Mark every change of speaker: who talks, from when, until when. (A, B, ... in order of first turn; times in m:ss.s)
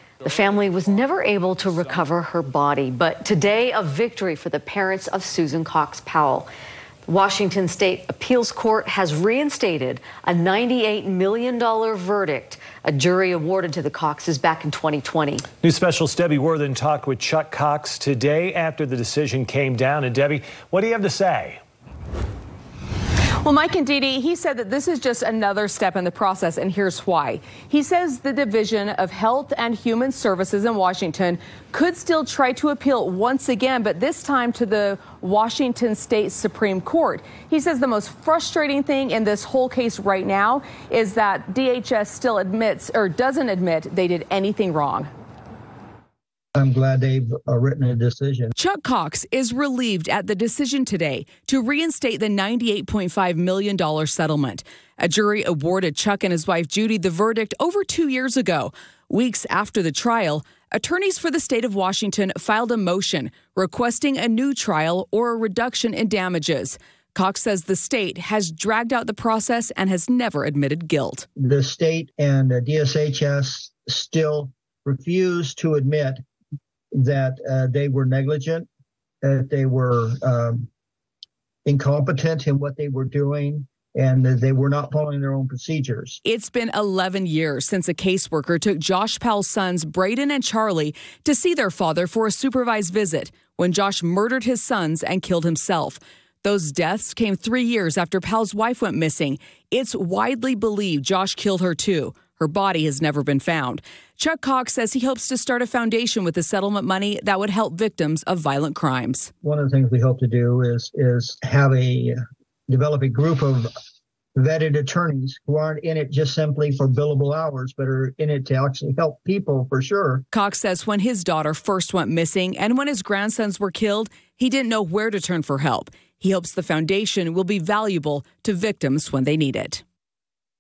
0:00.2-0:06.5 A
0:07.1-0:15.4 A
0:15.6-0:21.6 B
0:23.4-0:45.1 C
0:46.6-0:48.6 D
0:48.6-1:11.3 C
1:11.4-1:16.2 D
1:16.9-1:18.7 D
1:19.2-1:20.7 D
1:21.6-1:26.2 D
1:26.2-1:49.3 C
1:49.4-1:52.2 D
1:52.7-1:53.7 D
1:54.4-2:00.2 D
2:00.3-2:09.8 C